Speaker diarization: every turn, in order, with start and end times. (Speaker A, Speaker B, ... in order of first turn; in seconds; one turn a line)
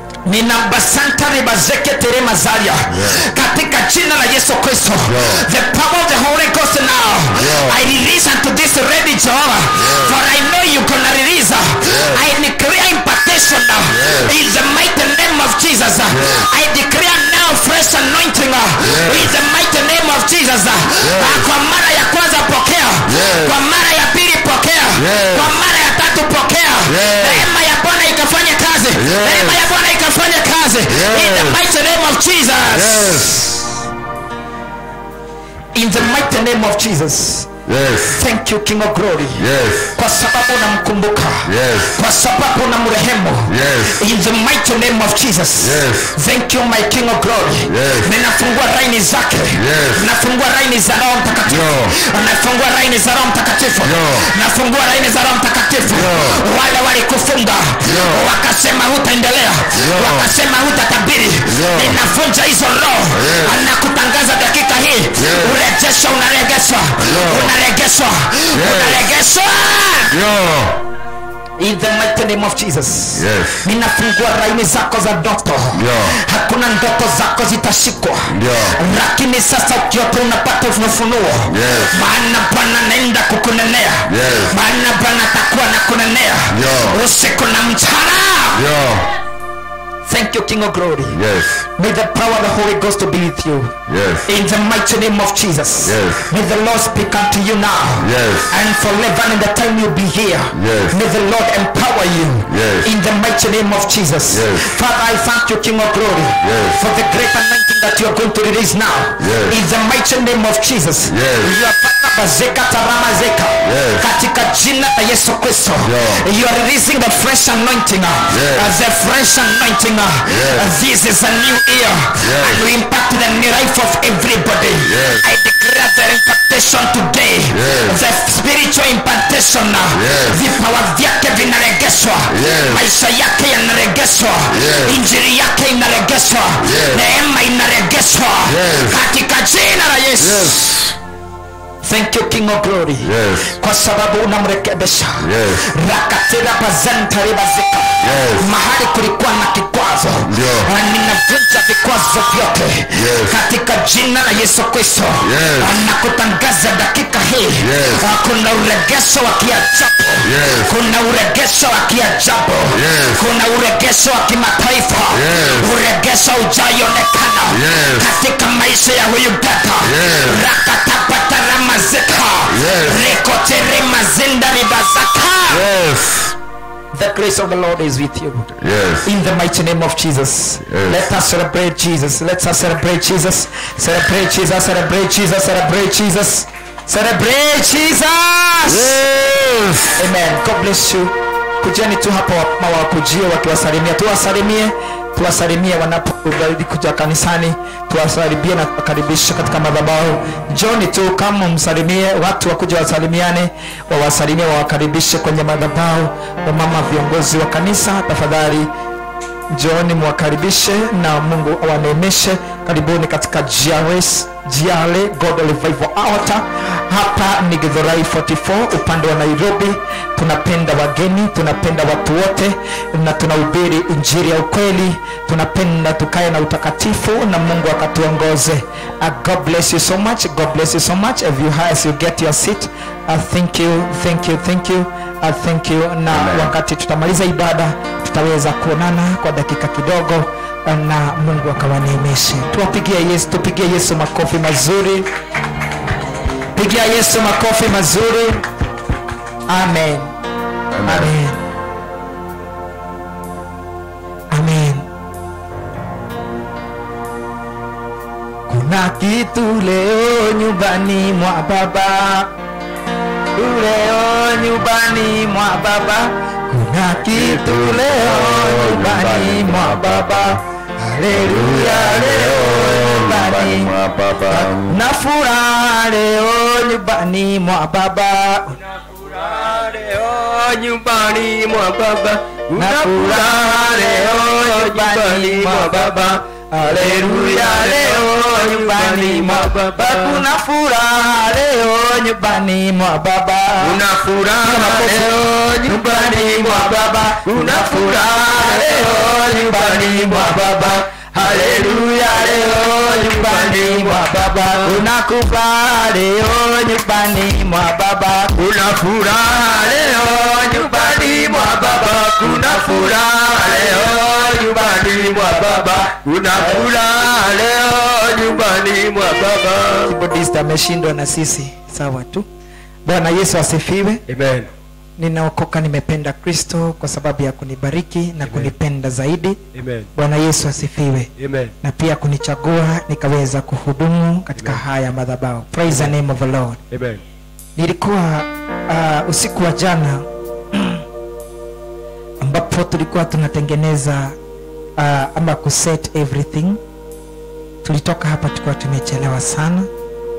Speaker A: 0.2-33.7
Speaker B: 2.9-3.2
Speaker B: 5.0-5.4
Speaker B: 7.3-7.8
Speaker B: 9.8-10.1
Speaker B: 11.8-12.2
Speaker B: 13.9-14.3
Speaker B: 16.1-16.5
Speaker B: 18.8-19.3
Speaker B: 21.0-21.5
Speaker B: 23.1-23.5
Speaker B: 24.9-25.5
Speaker B: 26.9-27.5
Speaker B: 28.9-29.6
Speaker B: 30.9-31.6
Speaker B: 32.7-33.7
Speaker A: 35.7-37.5
Speaker B: 37.6-38.2
Speaker A: 38.1-70.2
Speaker B: 39.4-39.9
Speaker B: 41.5-42.0
Speaker B: 43.5-44.0
Speaker B: 45.6-46.1
Speaker B: 47.6-48.1
Speaker B: 49.5-50.0
Speaker B: 51.5-52.0
Speaker B: 53.8-54.3
Speaker B: 55.8-56.4
Speaker B: 57.8-58.2
Speaker B: 59.7-60.3
Speaker B: 61.4-62.0
Speaker B: 63.1-63.6
Speaker B: 65.2-65.6
Speaker B: 67.0-67.5
Speaker B: 68.5-69.1
Speaker B: 70.1-70.8
Speaker A: 71.6-88.7
Speaker B: 73.1-73.7
Speaker B: 75.7-76.2
Speaker B: 78.3-78.8
Speaker B: 81.5-82.0
Speaker B: 84.0-84.5
Speaker B: 86.5-87.0
Speaker B: 88.5-89.1
Speaker A: 90.0-91.2
Speaker B: 91.1-91.7
Speaker A: 91.8-140.9
Speaker B: 93.9-94.3
Speaker B: 95.8-96.3
Speaker B: 98.0-98.5
Speaker B: 100.5-101.0
Speaker B: 102.5-102.9
Speaker B: 104.3-104.7
Speaker B: 106.4-106.8
Speaker B: 109.2-109.5
Speaker B: 111.1-111.5
Speaker B: 113.6-114.0
Speaker B: 115.8-116.2
Speaker B: 118.3-118.7
Speaker B: 120.2-120.7
Speaker B: 122.2-122.6
Speaker B: 124.8-125.2
Speaker B: 127.5-128.0
Speaker B: 129.9-130.4
Speaker B: 132.3-132.8
Speaker B: 134.5-135.0
Speaker B: 136.6-137.0
Speaker B: 138.5-139.0
Speaker B: 140.2-140.8
Speaker A: 141.8-175.7
Speaker B: 143.0-143.6
Speaker B: 145.2-145.7
Speaker B: 148.0-148.5
Speaker B: 150.3-150.7
Speaker B: 152.9-153.4
Speaker B: 155.2-155.7
Speaker B: 157.6-158.0
Speaker B: 160.2-160.7
Speaker B: 162.7-163.2
Speaker B: 165.1-165.7
Speaker B: 167.5-168.0
Speaker B: 169.8-170.5
Speaker B: 172.5-173.1
Speaker B: 175.5-176.3
Speaker A: 176.9-189.1
Speaker B: 178.6-179.1
Speaker B: 180.7-181.0
Speaker B: 188.7-190.0
Speaker A: 189.9-208.7
Speaker A: 209.5-245.1
Speaker B: 236.1-236.5
Speaker A: 246.5-248.4
Speaker A: 249.5-250.1
Speaker B: 250.7-251.1
Speaker A: 250.8-251.4
Speaker A: 254.3-254.9
Speaker A: 258.5-262.3
Speaker A: 263.4-273.7
Speaker B: 267.1-270.4
Speaker B: 271.1-274.8
Speaker A: 274.3-278.6
Speaker C: 278.9-290.2
Speaker A: 282.5-293.8
Speaker C: 293.6-304.8
Speaker A: 294.4-308.4
Speaker C: 308.4-319.9
Speaker A: 310.3-314.5
Speaker A: 316.3-316.7
Speaker A: 319.8-322.3
Speaker A: 322.8-324.0
Speaker C: 324.1-324.5
Speaker A: 325.0-329.4
Speaker C: 328.2-328.5
Speaker C: 329.5-329.9
Speaker A: 329.9-331.1
Speaker C: 331.2-331.5
Speaker A: 331.6-336.6
Speaker C: 335.7-335.9
Speaker C: 336.7-337.0
Speaker A: 337.6-340.8
Speaker A: 342.2-344.2
Speaker A: 344.8-346.6
Speaker A: 347.6-349.7